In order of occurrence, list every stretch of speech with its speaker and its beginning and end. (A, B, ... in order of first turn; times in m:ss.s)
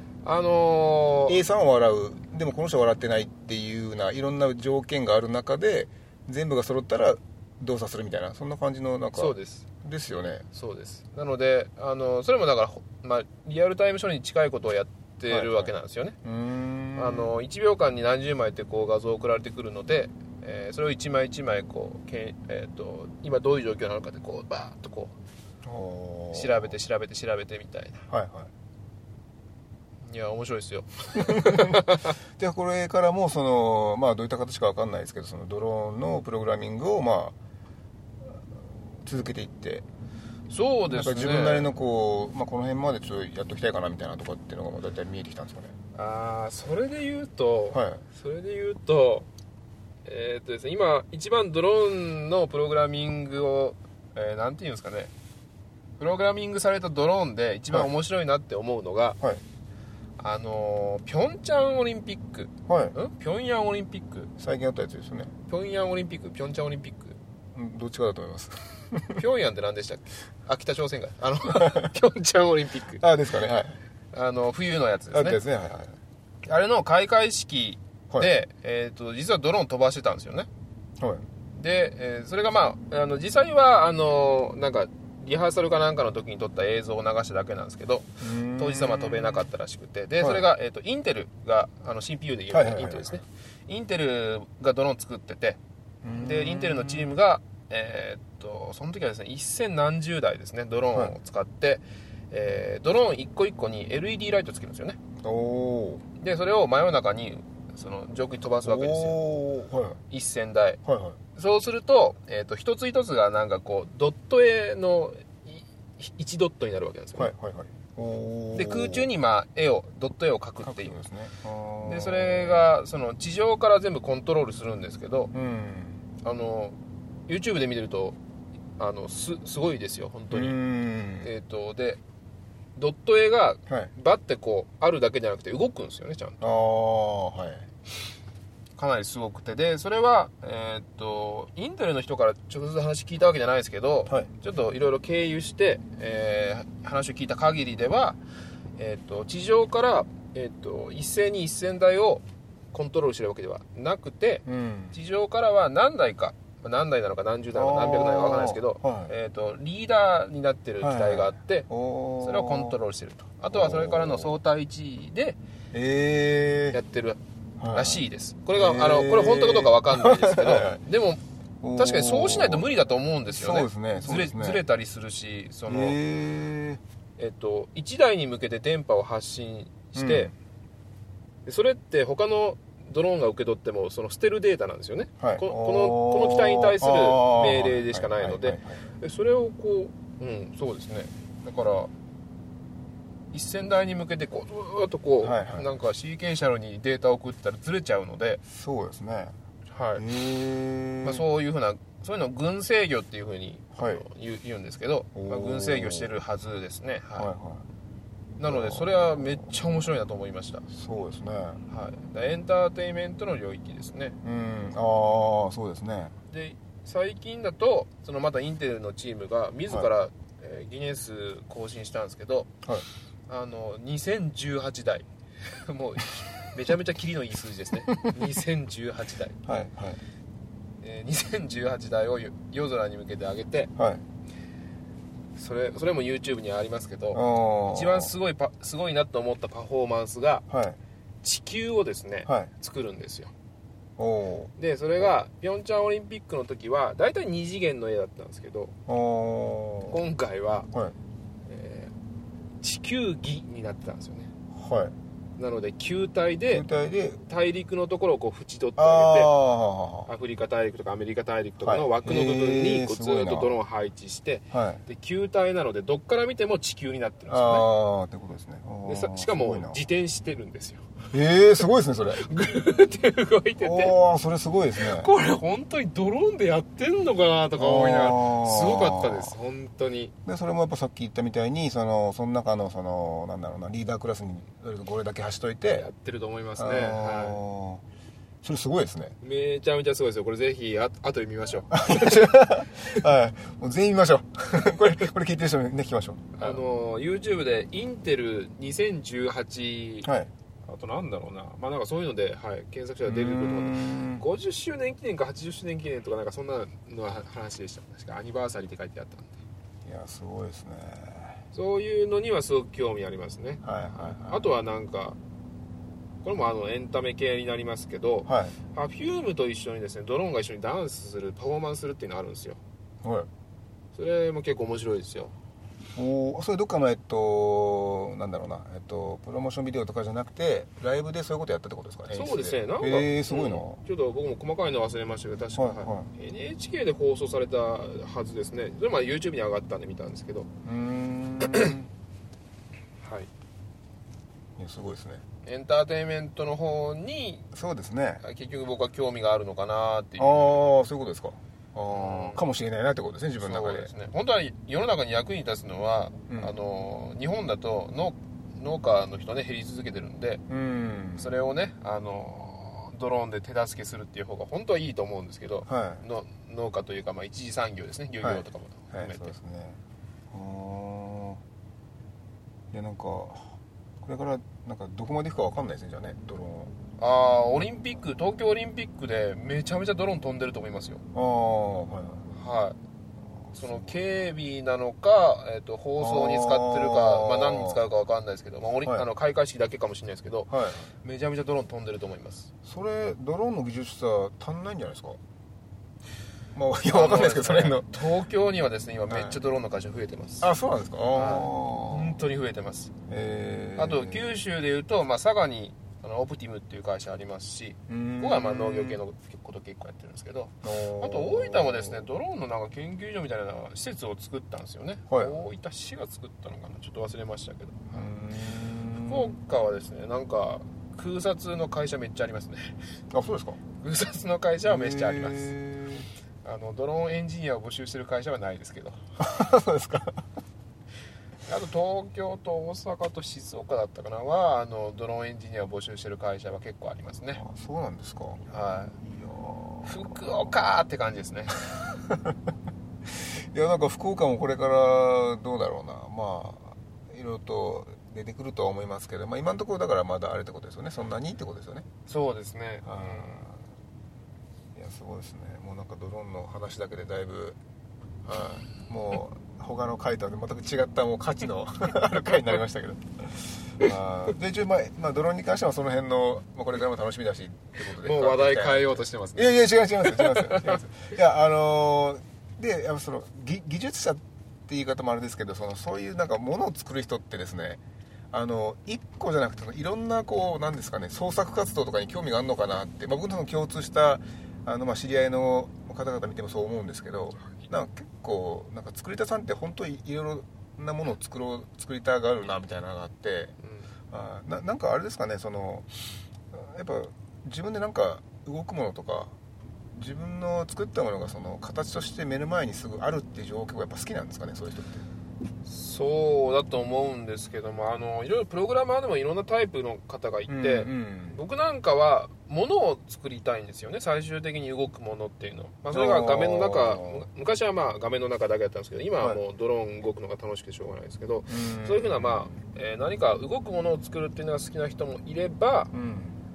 0:00.2-0:01.4 A
0:01.3-0:10.4 B
0:09.2-0:09.7 A
0:10.5-0:16.2 A
0:15.3-0:15.7 B
0:16.2-0:17.3 B
0:17.0-0:25.1 A
0:25.6-0:26.7 B
0:26.3-0:28.1 A
0:28.1-0:28.5 B
0:30.0-0:32.1 A
0:31.2-0:37.4 B
0:39.0-0:39.8 B
0:40.5-0:41.7 A
0:40.9-0:45.8 B
0:46.0-0:49.3 A
0:47.7-0:48.0 B
0:50.0-0:55.1 A
0:56.0-0:59.2 A
1:00.2-1:04.3 A
1:02.7-1:02.9 B
1:04.4-1:05.3 B
1:05.5-1:07.2 A
1:07.6-1:09.2 B
1:09.1-1:13.0 A
1:11.6-1:11.9 B
1:13.0-1:13.8 B
1:14.1-1:15.4 A
1:15.1-1:16.0 B
1:16.4-1:20.5 A
1:21.0-1:21.2 B
1:21.5-1:35.6 A
1:28.2-1:29.5 B
1:30.2-1:30.5 B
1:32.5-1:33.2 B
1:36.0-1:37.2 B
1:36.1-1:45.0 A
1:45.2-1:46.0 B
1:46.2-1:49.2 A
1:48.6-1:50.0 B
1:50.1-1:50.8 A
1:50.8-1:51.2 B
1:51.4-1:57.3 A
1:57.2-1:59.1 B
1:58.5-2:01.0 A
2:00.6-2:02.7 B
2:01.8-2:05.3 A
2:05.3-2:06.0 B
2:06.2-2:06.8 A
2:07.3-2:08.2 A
2:08.8-2:10.6 A
2:10.3-2:11.3 B
2:11.2-2:12.0 A
2:12.8-2:16.4 A
2:16.4-2:17.7 B
2:18.8-2:28.2 A
2:28.8-2:41.7 A
2:34.5-2:35.0 B
2:37.5-2:39.1 B
2:40.8-2:42.8 B
2:42.2-2:45.4 A
2:43.5-2:44.4 B
2:45.7-2:46.8 B
2:46.7-2:51.2 A
2:47.6-2:50.8 B
2:51.6-2:52.7 B
2:51.8-2:56.0 A
2:53.3-2:54.6 B
2:55.7-2:56.8 B
2:57.2-3:00.3 A
3:00.0-3:00.3 B
3:01.5-3:11.9 A
3:05.2-3:08.8 B
3:13.3-3:18.4 A
3:15.2-3:15.7 B
3:18.5-3:19.3 B
3:19.7-3:20.0 A
3:20.0-3:21.2 B
3:21.0-3:27.3 A
3:23.8-3:24.0 B
3:25.2-3:26.1 B
3:27.2-3:27.7 B
3:28.4-3:30.6 A
3:28.4-3:29.5 B
3:30.7-3:31.6 B
3:31.7-3:34.2 A
3:34.2-3:36.1 B
3:36.3-3:42.5 A
3:43.3-3:49.4 A
3:49.4-3:50.0 B
3:50.8-3:53.7 A
3:53.8-3:54.0 B
3:55.4-4:00.5 A
3:57.1-3:58.1 B
4:00.5-4:00.8 B
4:01.2-4:03.3 A
4:04.0-4:05.1 B
4:04.6-4:08.8 A
4:08.9-4:10.0 B
4:09.9-4:10.7 A
4:11.5-4:11.9 A
4:12.6-4:14.3 A
4:14.5-4:14.9 B
4:15.4-4:16.6 A
4:16.5-4:17.2 B
4:17.3-4:19.3 A
4:18.8-4:20.1 B
4:20.1-4:27.7 A
4:21.6-4:23.6 B
4:24.5-4:24.8 B
4:27.3-4:29.8 B
4:28.9-4:30.9 A
4:31.1-4:32.2 B
4:32.1-4:34.0 A
4:33.6-4:35.1 B
4:34.8-4:40.1 A
4:37.6-4:39.3 B
4:40.2-4:45.9 B
4:45.7-4:47.4 A
4:46.6-4:47.8 B
4:48.4-4:49.2 B
4:49.2-4:52.5 A
4:51.7-4:56.6 B
4:56.4-5:00.1 A
5:00.0-5:00.3 B
5:00.7-5:09.4 A
5:03.0-5:04.2 B
5:09.8-5:11.4 B
5:11.5-5:15.2 A
5:13.6-5:14.5 B
5:16.2-5:22.6 A
5:18.3-5:18.6 B
5:23.0-5:23.3 B
5:23.9-5:25.3 A
5:26.0-5:33.8 B
5:32.1-5:40.5 A
5:35.6-5:36.1 B
5:40.6-5:41.9 B
5:43.0-5:43.3 A
5:44.6-5:45.2 B
5:45.4-5:47.5 A
5:47.5-5:48.2 B
5:48.2-5:50.7 A
5:50.2-5:53.9 B
5:51.9-5:52.4 A
5:53.4-6:00.4 A
6:00.5-6:01.3 B
6:01.2-6:09.3 A
6:05.7-6:06.0 B
6:08.2-6:09.8 B
6:10.3-6:11.4 B
6:12.7-6:16.7 B
6:17.0-6:21.0 A
6:21.1-6:22.3 B
6:22.3-6:22.8 A
6:23.5-6:24.0 B
6:23.6-6:30.5 A
6:26.0-6:27.8 B
6:30.5-6:30.9 B
6:31.0-6:32.5 A
6:32.6-6:35.2 B
6:36.5-6:37.9 B
6:36.9-6:40.5 A
6:39.1-6:39.4 B
6:40.4-6:42.2 B
6:41.1-6:42.9 A
6:43.1-6:44.4 B
6:43.8-6:58.1 A
6:47.9-6:49.0 B
6:50.6-6:52.1 B
6:55.1-6:55.4 B
6:57.9-6:59.4 B
6:59.0-7:02.8 A
7:03.1-7:03.6 B
7:03.8-7:05.6 A
7:04.7-7:06.1 B
7:06.4-7:09.0 A
7:09.2-7:10.2 B
7:11.5-7:17.4 A
7:17.4-7:20.5 B
7:18.5-7:19.0 A
7:19.8-7:21.8 A
7:22.1-7:22.4 B
7:23.2-7:31.9 B
7:32.1-7:33.5 A
7:32.8-7:33.6 B
7:34.8-7:37.6 B
7:38.2-8:13.6 B
7:48.0-7:50.8 A
8:13.6-8:13.9 A
8:14.1-8:19.3 B
8:19.9-8:25.0 B
8:25.6-8:45.9 A
8:30.5-8:31.4 B
8:35.9-8:37.3 B
8:41.5-8:42.6 B
8:45.9-8:46.4 B